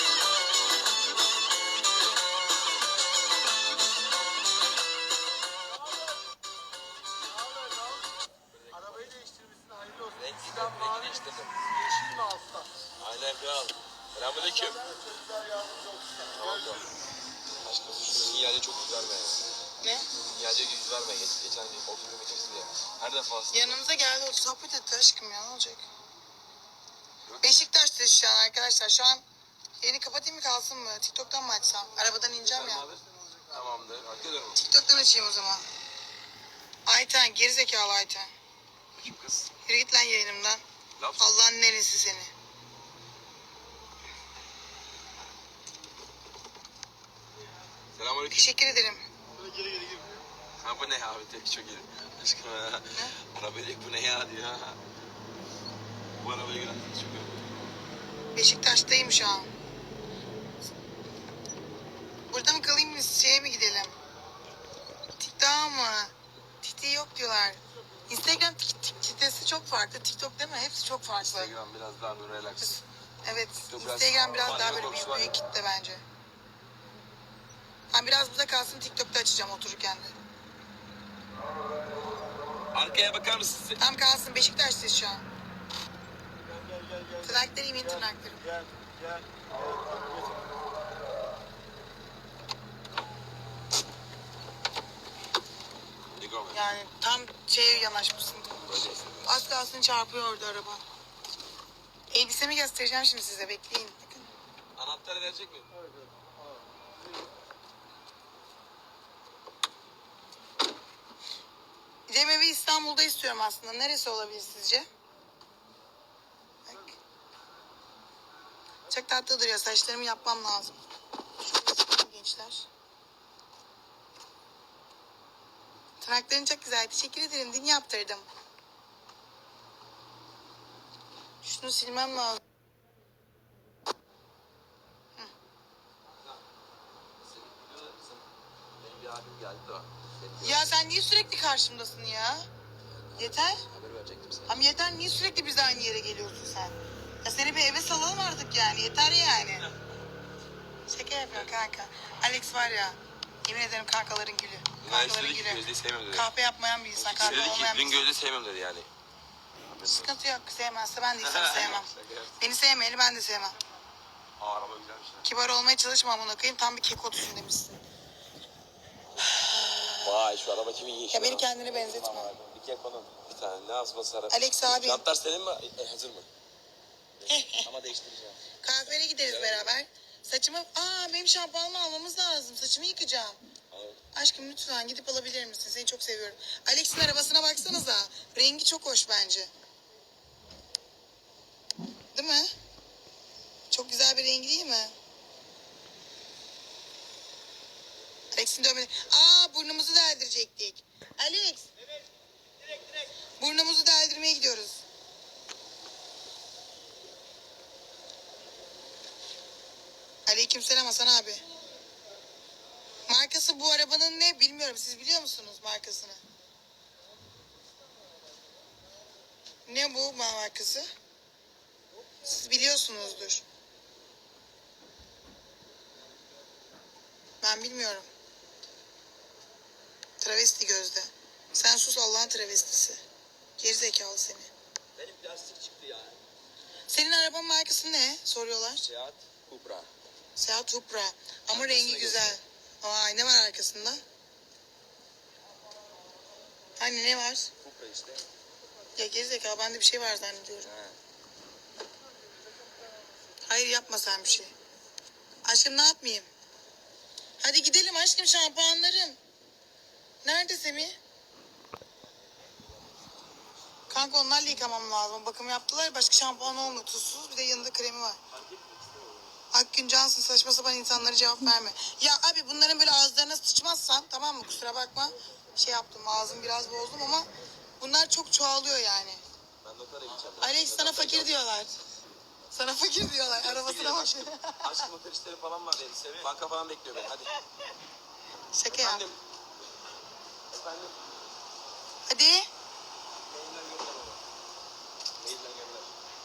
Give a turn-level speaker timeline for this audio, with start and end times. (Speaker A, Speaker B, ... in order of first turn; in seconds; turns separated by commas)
Speaker A: 8.5-9.2, Speaker B: 9.2-10.0, Speaker A: 9.9-11.6, Speaker B: 11.7-12.7, Speaker A: 13.0-14.9, Speaker B: 14.9-16.2, Speaker A: 16.3-16.9, Speaker A: 17.6-19.4, Speaker C: 19.8-20.1, Speaker A: 20.3-23.8, Speaker C: 23.5-25.8, Speaker C: 27.4-29.2, Speaker C: 29.8-32.9, Speaker A: 32.5-34.6, Speaker C: 34.5-35.6, Speaker C: 36.9-38.3, Speaker A: 39.0-39.5, Speaker C: 39.6-40.6, Speaker A: 41.0-41.3, Speaker C: 41.2-42.3, Speaker A: 48.0-48.5, Speaker C: 48.3-49.0, Speaker B: 49.5-50.1, Speaker A: 50.6-54.8, Speaker A: 56.2-57.4, Speaker C: 58.3-59.5, Speaker C: 62.3-63.9, Speaker C: 65.2-71.5, Speaker A: 71.2-72.8, Speaker C: 72.6-76.0, Speaker A: 73.7-75.3, Speaker C: 77.9-80.1, Speaker A: 82.7-83.8, Speaker C: 83.8-85.2, Speaker B: 86.6-87.2, Speaker C: 87.2-88.4, Speaker B: 88.5-90.4, Speaker A: 96.1-96.6, Speaker C: 96.5-98.7, Speaker A: 98.7-99.3, Speaker C: 99.2-100.8, Speaker C: 102.1-104.3, Speaker A: 104.8-105.7, Speaker C: 112.1-114.9, Speaker C: 116.7-117.0, Speaker C: 118.9-120.7, Speaker C: 121.4-122.7, Speaker C: 126.0-128.3, Speaker C: 131.4-132.4, Speaker A: 137.2-138.2, Speaker A: 138.8-140.8, Speaker C: 140.4-142.5, Speaker A: 142.9-144.7, Speaker C: 143.2-143.6, Speaker C: 144.5-149.7, Speaker C: 150.9-158.1, Speaker A: 151.3-151.6, Speaker A: 154.8-156.3, Speaker A: 156.9-158.9, Speaker A: 159.7-160.2, Speaker C: 159.8-163.6, Speaker A: 161.2-162.4, Speaker A: 164.4-165.3, Speaker C: 165.2-167.8, Speaker C: 169.2-170.1, Speaker A: 170.0-176.3, Speaker C: 171.1-172.3, Speaker C: 174.3-175.0, Speaker C: 177.3-177.7, Speaker A: 177.5-178.4, Speaker C: 178.6-183.4, Speaker A: 179.2-179.7, Speaker A: 183.7-184.0, Speaker C: 184.1-189.5, Speaker C: 192.1-192.5, Speaker C: 193.7-194.9, Speaker C: 198.3-201.7, Speaker C: 203.4-204.8, Speaker C: 210.2-211.4, Speaker C: 213.1-216.2, Speaker C: 219.7-220.9, Speaker C: 222.2-223.4, Speaker C: 227.4-228.1, Speaker C: 230.2-233.0, Speaker C: 233.6-234.5, Speaker A: 234.9-236.2, Speaker C: 236.9-238.8, Speaker A: 238.8-239.9, Speaker C: 240.4-244.0, Speaker A: 241.5-242.4, Speaker C: 246.8-247.5, Speaker A: 247.6-248.2, Speaker C: 248.9-250.7, Speaker A: 250.6-251.0, Speaker C: 253.5-254.5, Speaker C: 255.4-256.3, Speaker C: 257.4-259.2, Speaker C: 260.2-261.0, Speaker C: 263.9-268.2, Speaker A: 268.3-269.2, Speaker C: 269.5-277.3, Speaker C: 277.8-279.2, Speaker A: 279.6-281.4, Speaker C: 280.4-281.8, Speaker C: 282.5-284.9, Speaker A: 283.3-287.3, Speaker C: 288.5-289.1, Speaker A: 288.7-289.2, Speaker A: 290.5-290.9, Speaker C: 292.1-292.5, Speaker A: 293.2-294.2, Speaker A: 295.2-295.9